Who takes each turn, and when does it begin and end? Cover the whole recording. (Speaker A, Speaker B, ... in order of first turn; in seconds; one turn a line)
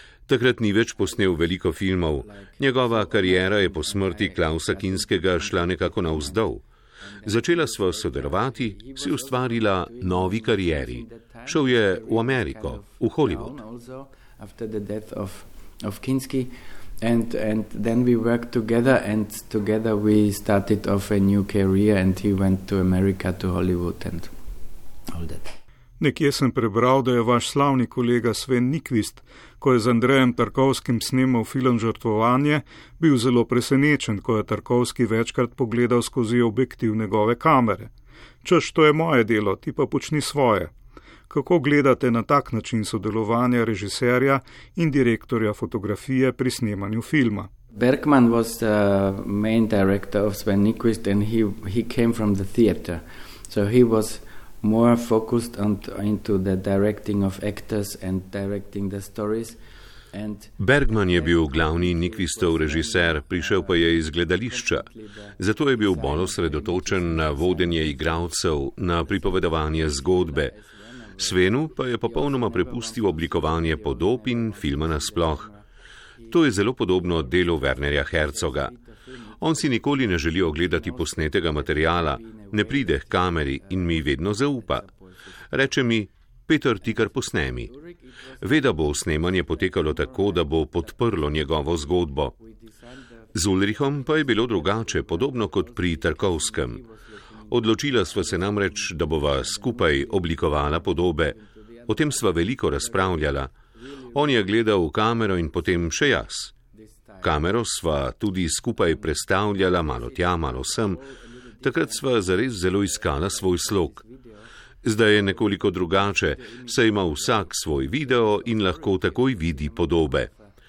Speaker A: 0.3-6.6
Speaker B: 1.0-1.4
Speaker B: 2.2-6.5
Speaker B: 7.0-24.3
Speaker A: 7.2-13.5
Speaker B: 25.1-25.5
Speaker C: 26.0-37.9
Speaker C: 38.4-40.7
Speaker C: 41.3-47.5
Speaker B: 47.7-59.6
Speaker B: 60.1-60.6
Speaker A: 60.6-70.5
Speaker B: 61.1-68.3
Speaker B: 69.0-75.6
Speaker A: 71.2-75.5
Speaker B: 76.2-85.1
Speaker A: 76.3-78.7
Speaker A: 79.4-84.9
Speaker A: 85.5-87.7
Speaker B: 87.7-91.4
Speaker A: 88.4-92.3
Speaker B: 92.3-104.6
Speaker A: 93.3-96.8
Speaker A: 97.5-103.5
Speaker A: 104.1-106.5
Speaker B: 106.7-107.6
Speaker A: 107.2-111.0
Speaker B: 108.8-114.5
Speaker A: 111.6-114.0
Speaker A: 114.8-120.3
Speaker B: 115.0-120.5